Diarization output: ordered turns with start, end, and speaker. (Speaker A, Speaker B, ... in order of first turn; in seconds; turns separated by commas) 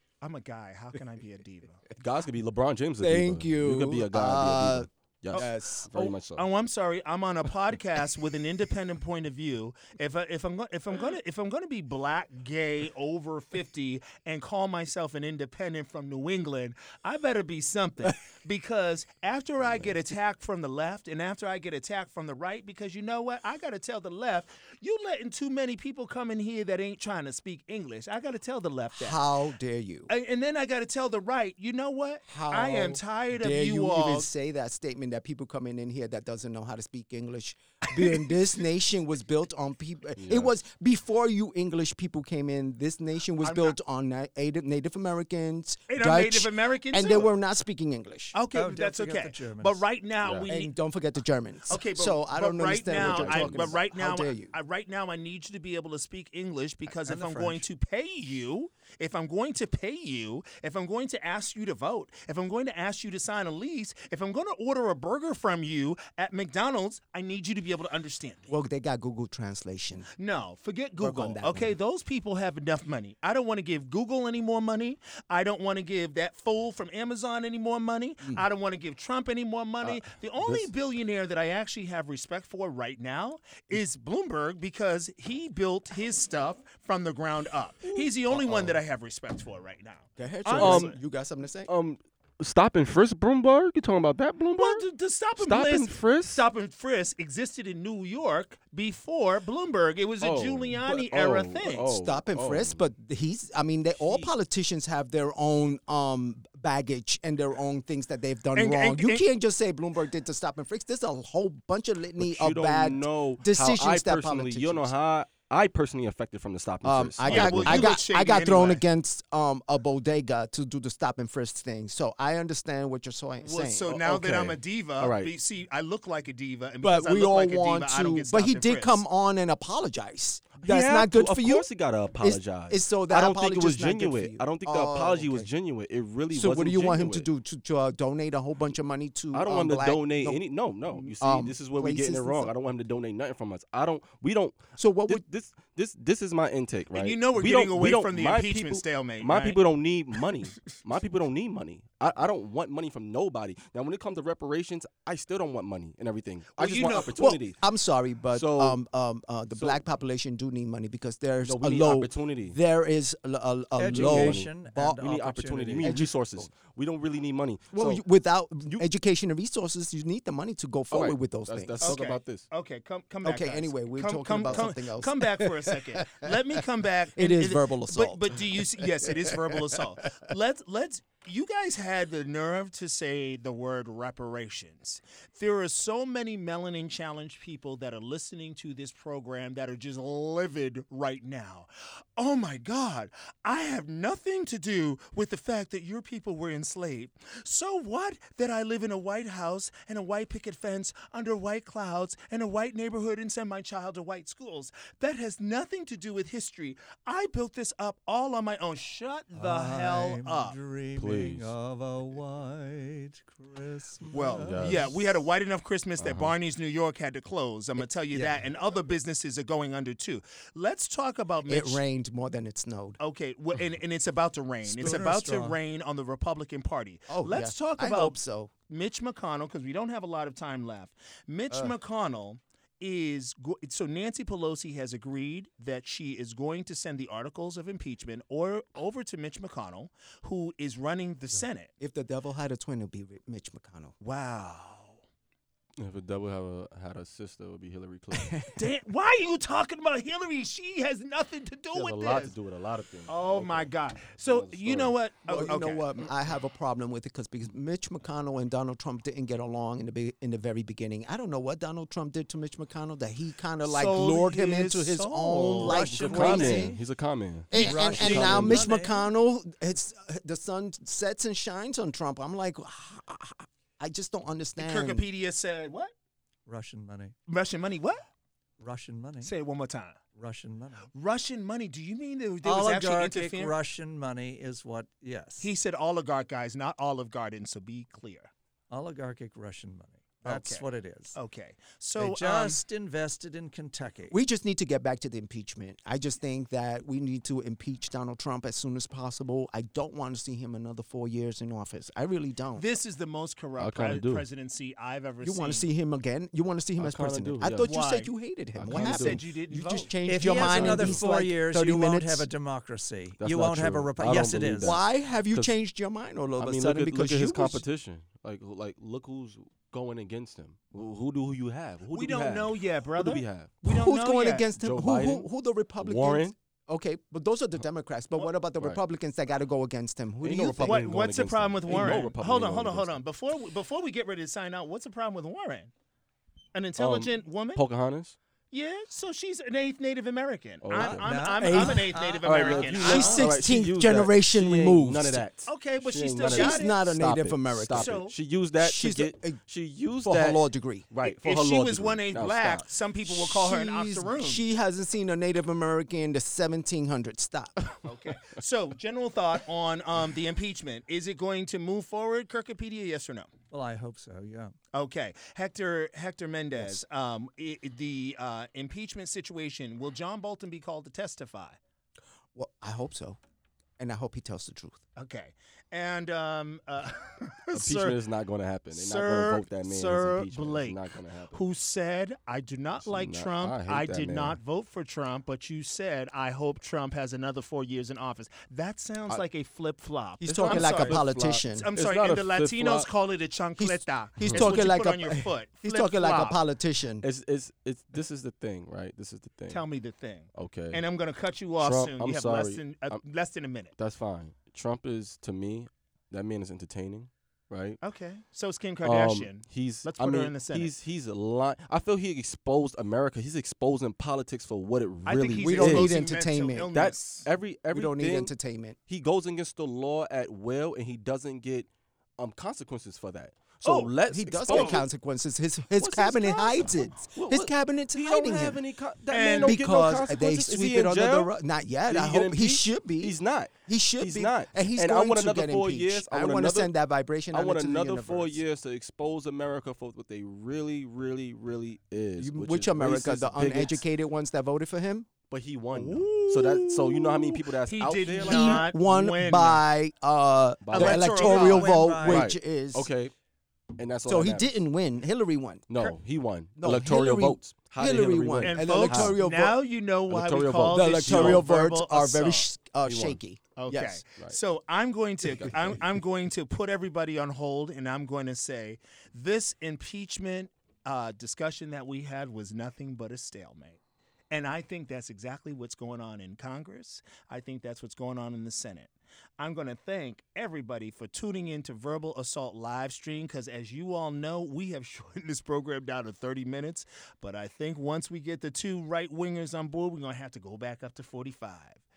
Speaker A: 0.2-1.8, Speaker B: 1.9-6.5, Speaker C: 3.0-6.1, Speaker A: 6.3-29.2, Speaker C: 28.9-30.1, Speaker A: 30.1-34.3, Speaker C: 32.3-48.3, Speaker A: 38.0-38.3, Speaker B: 40.2-40.5, Speaker A: 43.4-43.7, Speaker A: 45.9-47.3, Speaker A: 48.3-50.7, Speaker D: 48.5-49.8, Speaker B: 50.2-50.5, Speaker C: 50.5-54.5, Speaker A: 51.7-68.5, Speaker B: 52.9-53.7, Speaker D: 57.0-57.6, Speaker C: 68.5-70.1, Speaker A: 70.2-91.0, Speaker C: 71.0-71.7, Speaker B: 79.8-80.7, Speaker C: 88.3-88.8, Speaker C: 90.2-91.7, Speaker B: 90.5-90.9, Speaker B: 91.7-94.8, Speaker A: 94.5-101.9, Speaker B: 95.4-96.4, Speaker B: 100.2-102.8, Speaker C: 101.8-114.9, Speaker B: 104.0-104.3, Speaker A: 108.5-109.2, Speaker B: 112.2-118.0, Speaker C: 116.8-124.5, Speaker A: 117.2-118.8, Speaker A: 123.4-129.0, Speaker B: 124.1-125.3, Speaker C: 126.8-131.7, Speaker B: 130.6-137.3, Speaker C: 132.2-135.5, Speaker C: 136.3-140.4, Speaker B: 139.3-157.6, Speaker C: 140.9-142.5, Speaker C: 144.8-145.2, Speaker A: 146.9-149.6, Speaker A: 156.6-157.3, Speaker C: 156.8-165.0, Speaker B: 158.3-158.8, Speaker B: 159.5-159.8, Speaker B: 161.4-162.6, Speaker D: 163.8-166.0, Speaker B: 163.9-168.0, Speaker C: 165.8-166.5, Speaker C: 167.7-172.0, Speaker B: 170.9-172.5, Speaker A: 171.8-210.6, Speaker C: 173.2-176.6, Speaker C: 177.2-179.8, Speaker D: 209.3-214.9, Speaker B: 211.0-211.5, Speaker A: 214.1-221.8, Speaker B: 214.4-214.9, Speaker B: 216.0-216.3, Speaker C: 221.5-223.0, Speaker A: 223.0-228.2, Speaker D: 224.7-225.6, Speaker C: 227.1-228.5, Speaker A: 228.7-241.7, Speaker C: 241.8-243.9, Speaker A: 244.0-245.0, Speaker B: 245.8-248.4, Speaker C: 248.1-248.5, Speaker A: 248.5-252.3, Speaker B: 251.7-254.9, Speaker A: 253.1-256.1, Speaker C: 255.3-266.7, Speaker A: 263.6-266.8, Speaker B: 265.6-268.6, Speaker D: 266.0-266.7, Speaker C: 267.5-275.1, Speaker D: 267.5-269.0, Speaker A: 267.6-268.3, Speaker A: 274.6-275.9, Speaker D: 276.5-277.1, Speaker A: 277.3-278.1, Speaker D: 278.6-279.3, Speaker A: 279.2-280.0, Speaker D: 280.1-280.9, Speaker A: 280.9-283.5, Speaker D: 282.4-285.5, Speaker A: 285.4-288.3, Speaker D: 288.7-291.1, Speaker A: 290.2-292.6, Speaker D: 292.0-294.1, Speaker C: 294.1-302.7, Speaker A: 302.6-305.7, Speaker B: 303.6-304.2, Speaker C: 305.2-312.2, Speaker B: 306.8-307.7, Speaker A: 307.6-308.1, Speaker B: 308.5-309.2, Speaker A: 308.6-310.4, Speaker D: 310.0-314.8, Speaker B: 310.3-311.0, Speaker B: 313.2-315.5, Speaker C: 314.6-317.6, Speaker B: 316.4-323.6, Speaker A: 321.9-324.5, Speaker C: 323.6-330.9, Speaker B: 324.5-326.3, Speaker B: 330.2-333.0, Speaker A: 330.6-335.7, Speaker C: 331.7-332.1, Speaker A: 336.5-337.6, Speaker B: 336.8-338.1, Speaker A: 338.5-343.4, Speaker B: 340.6-341.7, Speaker D: 340.7-343.2, Speaker C: 341.4-341.9, Speaker B: 342.2-352.7, Speaker C: 342.8-345.2, Speaker A: 345.5-346.8, Speaker C: 346.2-348.0, Speaker A: 347.7-348.1, Speaker C: 348.6-349.4, Speaker C: 350.0-350.9, Speaker A: 351.0-354.4, Speaker C: 353.0-357.8, Speaker A: 357.8-363.3, Speaker D: 363.5-364.5, Speaker A: 364.7-371.6, Speaker C: 366.6-366.8, Speaker C: 372.3-373.2, Speaker C: 373.8-374.8, Speaker A: 374.9-378.0, Speaker B: 377.5-381.4, Speaker A: 378.7-396.4, Speaker B: 382.8-384.4, Speaker C: 390.2-391.7, Speaker B: 390.2-392.9, Speaker C: 393.6-397.0, Speaker B: 394.2-394.7, Speaker B: 397.0-399.6, Speaker A: 399.5-403.7, Speaker B: 400.3-400.8, Speaker B: 401.6-403.0, Speaker B: 403.8-407.8, Speaker A: 407.8-410.7, Speaker B: 408.8-415.9, Speaker A: 415.1-417.3, Speaker C: 415.4-416.7, Speaker B: 416.7-418.3, Speaker C: 417.7-418.8, Speaker B: 418.9-424.9, Speaker A: 423.6-423.9, Speaker C: 424.1-428.6, Speaker A: 424.5-424.8, Speaker B: 425.8-431.3, Speaker A: 429.1-429.6, Speaker C: 429.4-438.4, Speaker B: 431.9-436.7, Speaker B: 437.3-443.8, Speaker C: 442.2-445.1, Speaker B: 445.3-448.7, Speaker A: 445.7-449.6, Speaker C: 448.2-452.9, Speaker B: 450.6-451.4, Speaker A: 450.7-451.9, Speaker D: 451.3-452.3, Speaker B: 452.1-453.1, Speaker B: 453.8-454.5, Speaker C: 454.0-455.7, Speaker B: 455.7-459.2, Speaker C: 456.6-459.6, Speaker A: 458.4-462.4, Speaker B: 460.1-461.4, Speaker C: 460.7-464.0, Speaker B: 462.8-463.2, Speaker A: 463.6-473.8, Speaker B: 465.2-465.8, Speaker A: 474.3-491.8